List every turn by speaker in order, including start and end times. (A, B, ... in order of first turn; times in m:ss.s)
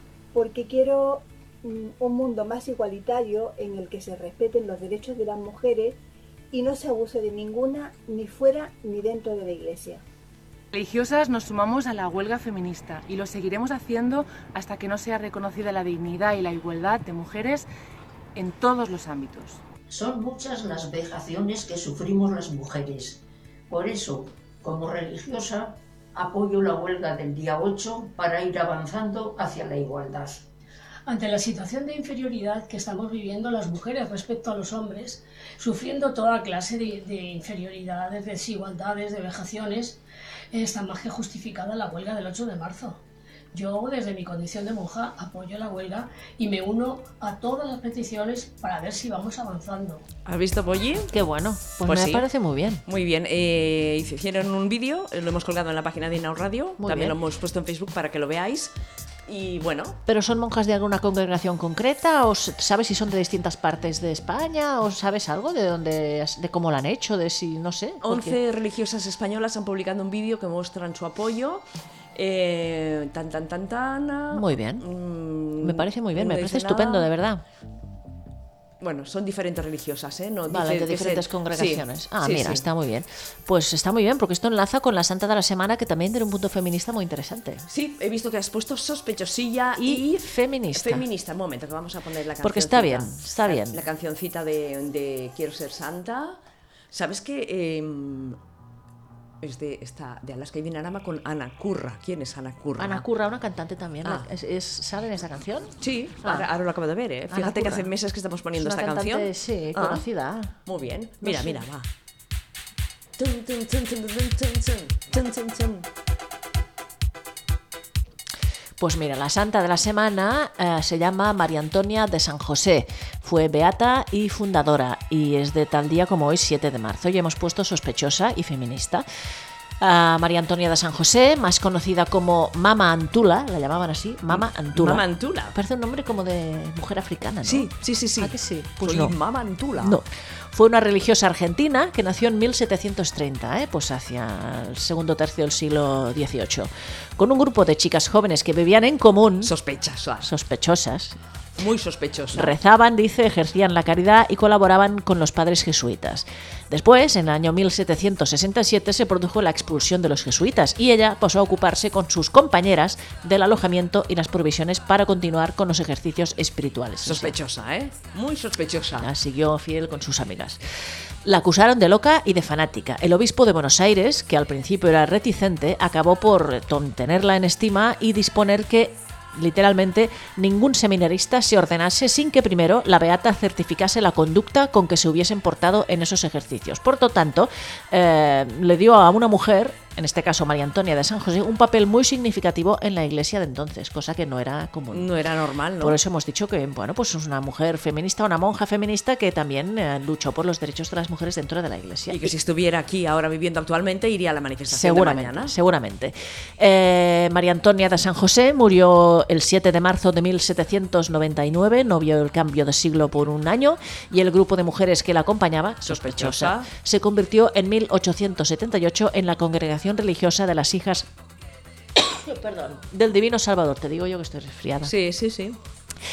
0:00.3-0:06.0 A
0:06.5-0:10.0 A
0:10.7-0:17.7 B
0:18.3-0:19.6 B
0:19.9-0:30.4 C
0:31.0-0:40.0 D
0:40.5-0:43.0 D
0:43.5-0:50.0 D
0:50.2-0:51.2 E
0:51.1-0:52.8 F
0:51.8-0:52.2 E
0:52.8-0:58.7 E
0:56.8-0:57.2 F
0:59.3-1:00.0 E
1:00.0-1:08.4 F
1:08.0-1:11.6 E
1:12.1-1:17.0 E
1:14.3-1:14.8 F
1:15.6-1:17.4 F
1:18.8-1:22.6 E
1:20.5-1:27.6 F
1:27.7-1:36.4 E
1:29.8-1:31.0 F
1:32.4-1:33.8 F
1:36.9-1:38.4 E
1:39.4-1:43.0 E
1:42.8-1:46.5 F
1:45.8-1:50.0 E
1:47.3-1:47.9 F
1:48.6-1:50.6 F
1:50.6-1:51.9 E
1:51.2-1:51.6 F
1:53.2-1:55.9 E
1:58.8-2:09.0 F
2:09.8-2:19.1 F
2:14.3-2:15.6 E
2:17.4-2:20.0 E
2:19.8-2:29.5 F
2:29.4-2:30.3 E
2:30.2-2:31.2 F
2:31.6-2:32.5 E
2:32.3-2:47.4 F
2:47.0-2:49.1 E
2:49.0-2:50.6 F
2:51.2-3:15.1 F
3:14.9-3:16.0 E
3:15.8-3:22.3 F
3:22.1-3:25.5 E
3:24.7-3:41.1 F
3:35.8-3:36.7 E
3:42.0-3:44.9 F
3:44.8-3:45.6 E